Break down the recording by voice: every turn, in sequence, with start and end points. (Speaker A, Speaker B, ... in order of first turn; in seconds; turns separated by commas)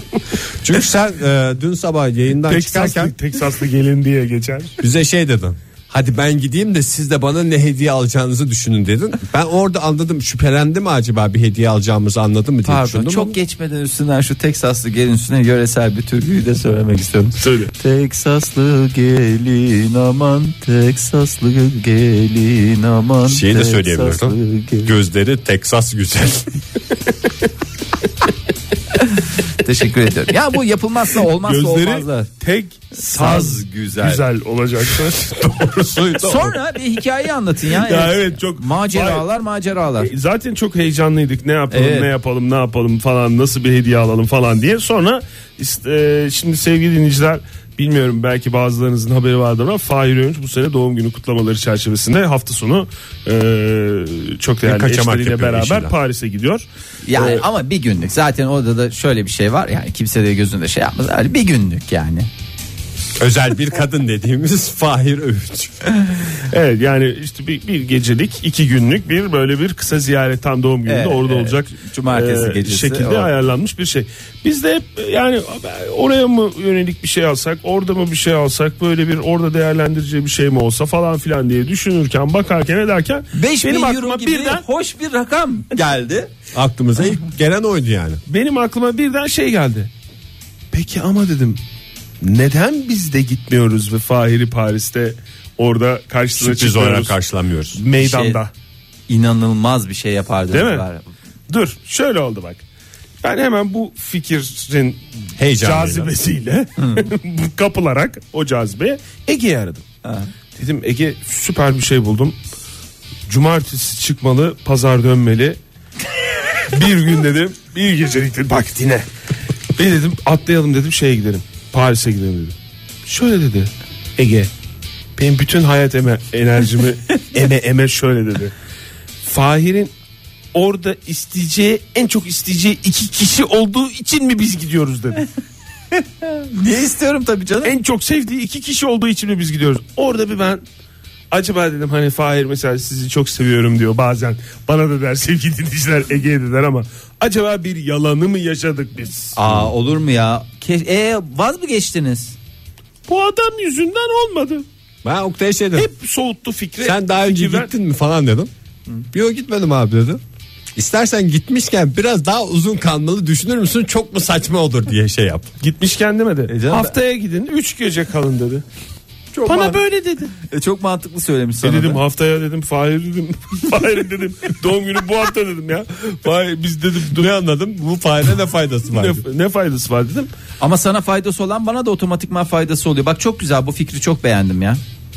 Speaker A: 0.5-3.1, Speaker B: 2.5-4.8, Speaker A: 4.8-13.3, Speaker C: 12.6-24.9, Speaker B: 17.4-17.7, Speaker A: 23.2-26.6, Speaker C: 29.0-32.3, Speaker B: 31.3-36.5, Speaker C: 32.9-34.2, Speaker A: 35.4-36.5, Speaker C: 36.2-40.1, Speaker B: 37.7-39.2, Speaker B: 40.0-57.4, Speaker C: 41.7-42.1, Speaker A: 54.6-55.9, Speaker C: 57.0-62.3, Speaker A: 63.2-66.0, Speaker B: 66.4-84.6, Speaker C: 70.8-73.3, Speaker C: 83.3-86.3, Speaker A: 86.5-88.2, Speaker B: 88.3-89.9, Speaker B: 90.7-91.6, Speaker B: 92.2-97.1, Speaker A: 96.3-97.8, Speaker B: 97.7-98.5, Speaker C: 98.0-98.4, Speaker C: 99.1-101.0, Speaker B: 100.5-100.8, Speaker B: 101.5-102.6, Speaker B: 103.2-105.0, Speaker A: 105.4-106.1, Speaker B: 105.6-109.8, Speaker C: 106.8-107.0, Speaker C: 110.0-110.3, Speaker B: 110.5-112.3, Speaker B: 113.3-115.6, Speaker B: 116.7-119.0, Speaker B: 119.7-122.5, Speaker B: 123.0-124.5, Speaker B: 125.2-128.5, Speaker B: 129.2-129.9, Speaker B: 130.5-135.2, Speaker C: 135.9-137.7, Speaker B: 137.6-140.6, Speaker B: 141.3-149.3, Speaker C: 149.3-152.3, Speaker B: 153.1-154.6, Speaker A: 155.0-155.9, Speaker B: 155.7-157.7, Speaker A: 156.8-158.5, Speaker A: 159.1-160.2, Speaker A: 160.8-165.5, Speaker B: 165.6-168.6, Speaker C: 166.5-166.9, Speaker C: 169.3-169.8, Speaker B: 169.4-170.3, Speaker C: 170.3-172.0, Speaker B: 171.6-177.3, Speaker A: 177.1-179.2, Speaker B: 178.9-180.3, Speaker C: 180.6-184.8